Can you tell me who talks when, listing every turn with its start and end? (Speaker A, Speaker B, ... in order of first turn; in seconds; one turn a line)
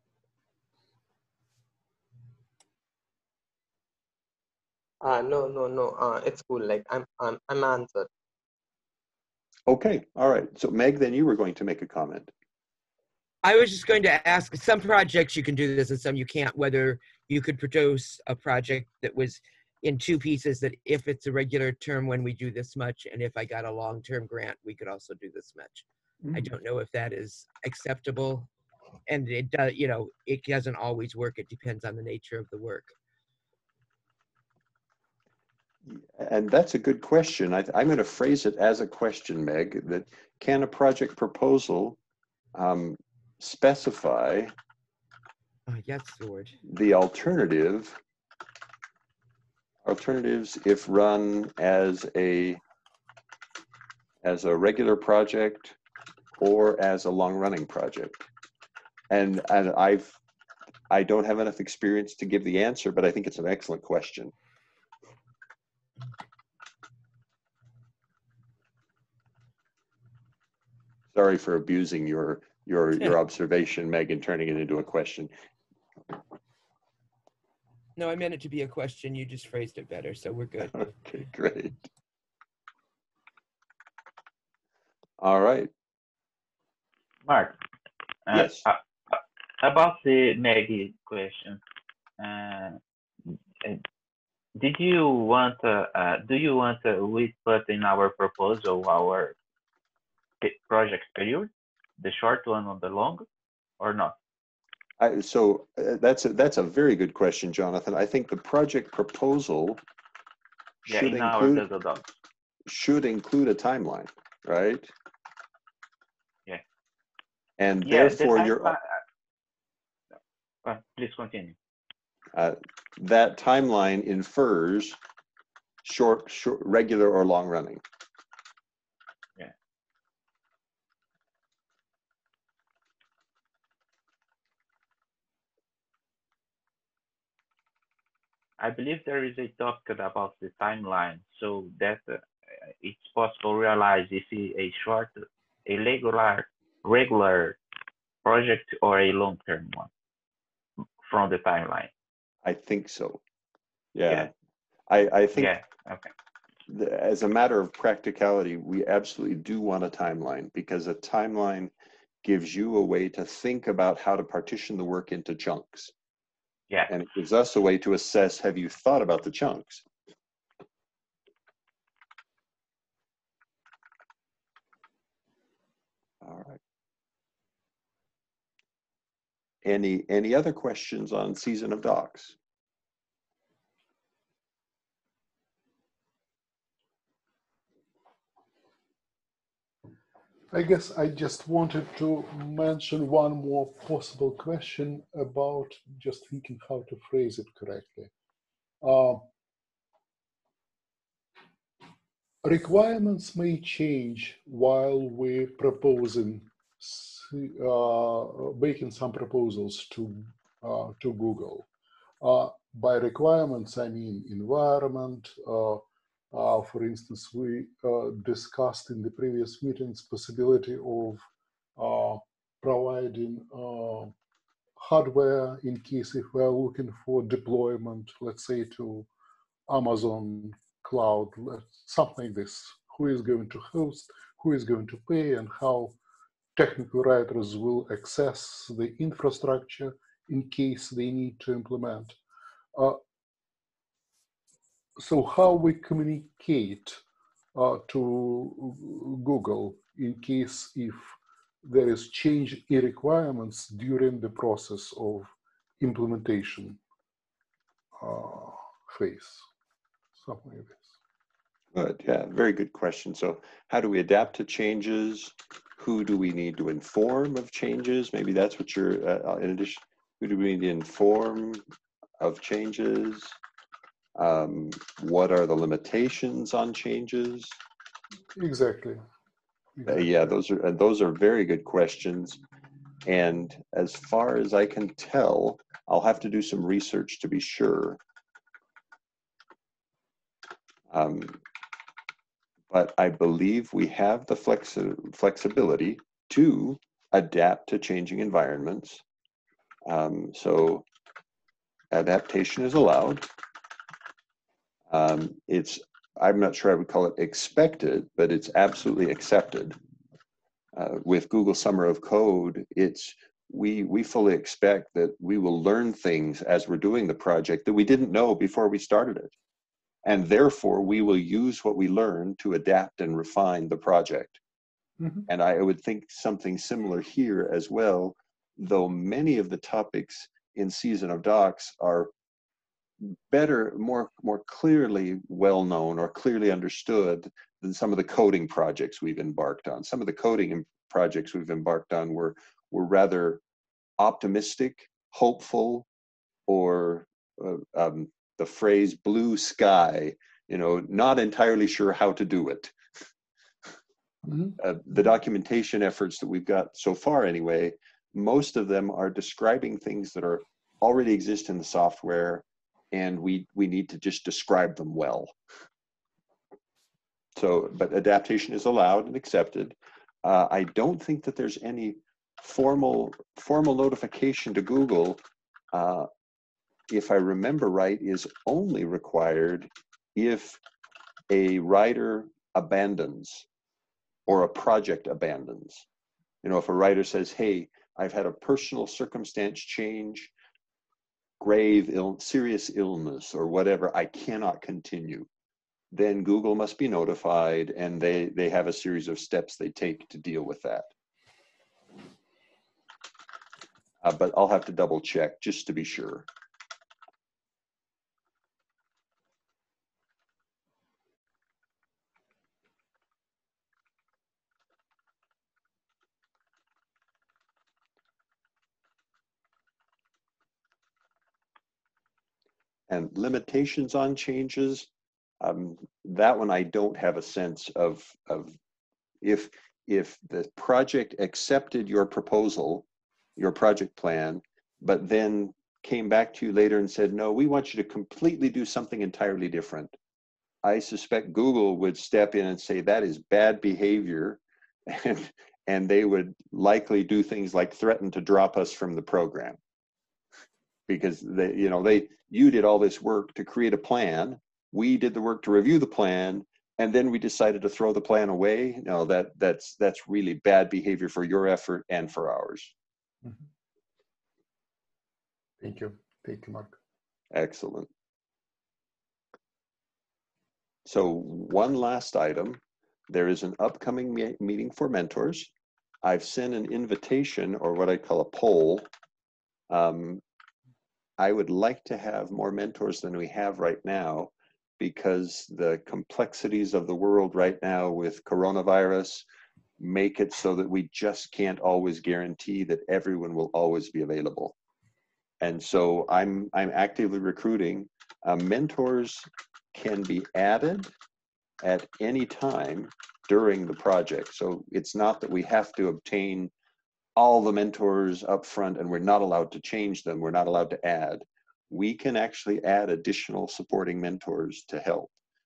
Speaker A: 5.0-8.1
Speaker B: 9.7-12.3
Speaker C: 13.4-28.5
Speaker C: 29.1-32.9
Speaker B: 35.9-42.0
Speaker B: 42.5-44.5
Speaker C: 45.7-46.6
Speaker B: 46.6-48.0
Speaker B: 49.9-52.6
Speaker B: 54.2-55.8
Speaker B: 56.4-58.2
Speaker B: 59.1-60.2
Speaker B: 60.9-64.3
Speaker B: 71.1-75.3
Speaker C: 78.0-80.8
Speaker B: 80.6-81.8
Speaker B: 85.2-85.7
Speaker D: 87.3-87.6
Speaker D: 88.3-91.6
Speaker B: 88.3-88.7
Speaker D: 92.2-92.8
Speaker D: 94.5-99.4
Speaker D: 100.4-103.3
Speaker D: 103.8-104.2
Speaker B: 105.0-109.8
Speaker B: 110.8-111.6
Speaker D: 110.9-112.1
Speaker B: 112.7-114.9
Speaker B: 117.6-118.8
Speaker D: 117.9-119.0
Speaker D: 120.6-121.6
Speaker B: 122.3-125.0
Speaker B: 125.8-127.8
Speaker D: 138.6-147.6
Speaker D: 148.2-149.9
Speaker D: 151.0-151.9
Speaker B: 152.4-153.2
Speaker B: 153.9-154.3
Speaker B: 154.9-155.5
Speaker D: 155.4-156.1
Speaker B: 156.7-161.7
Speaker B: 162.2-165.9
Speaker B: 166.9-169.8
Speaker B: 176.2-176.6
Speaker B: 179.6-182.4
Speaker E: 190.5-198.1
Speaker E: 198.8-199.3
Speaker E: 202.4-211.7
Speaker E: 212.2-221.2
Speaker E: 221.8-224.2
Speaker E: 224.8-229.1
Speaker E: 229.7-236.0
Speaker E: 236.6-242.2
Speaker E: 242.8-243.0
Speaker E: 245.0-247.0
Speaker E: 247.5-256.8
Speaker E: 258.0-259.5
Speaker E: 260.2-260.9
Speaker B: 261.7-271.6
Speaker B: 272.2-273.4
Speaker B: 274.2-277.6
Speaker E: 278.4-279.0
Speaker E: 279.8-280.1
Speaker B: 279.9-282.4
Speaker B: 283.1-288.0
Speaker B: 290.9-291.4
Speaker B: 292.7-299.0
Speaker B: 299.9-300.9
Speaker B: 301.9-303.3
Speaker B: 304.9-309.8
Speaker B: 310.8-319.3
Speaker B: 320.1-324.4
Speaker E: 325.0-325.3
Speaker B: 325.3-332.1
Speaker B: 333.0-343.4
Speaker B: 344.0-345.9
Speaker B: 346.5-352.8
Speaker E: 354.2-354.6
Speaker B: 354.6-365.3
Speaker B: 367.4-375.2
Speaker B: 375.7-376.1
Speaker B: 376.9-380.6
Speaker B: 381.3-383.5
Speaker B: 384.3-385.9
Speaker B: 386.4-390.3
Speaker B: 391.4-395.3
Speaker B: 395.9-400.9
Speaker B: 404.0-406.3
Speaker B: 422.9-424.9
Speaker B: 425.4-428.6
Speaker B: 429.2-432.9
Speaker B: 433.4-439.9
Speaker B: 440.6-449.6
Speaker B: 450.9-462.7
Speaker E: 465.6-466.8
Speaker B: 467.3-467.9
Speaker B: 470.9-475.5
Speaker B: 476.0-478.9
Speaker B: 479.7-480.2
Speaker B: 481.2-489.2
Speaker B: 489.8-494.6
Speaker B: 495.4-500.9
Speaker B: 501.6-506.5
Speaker B: 507.2-515.1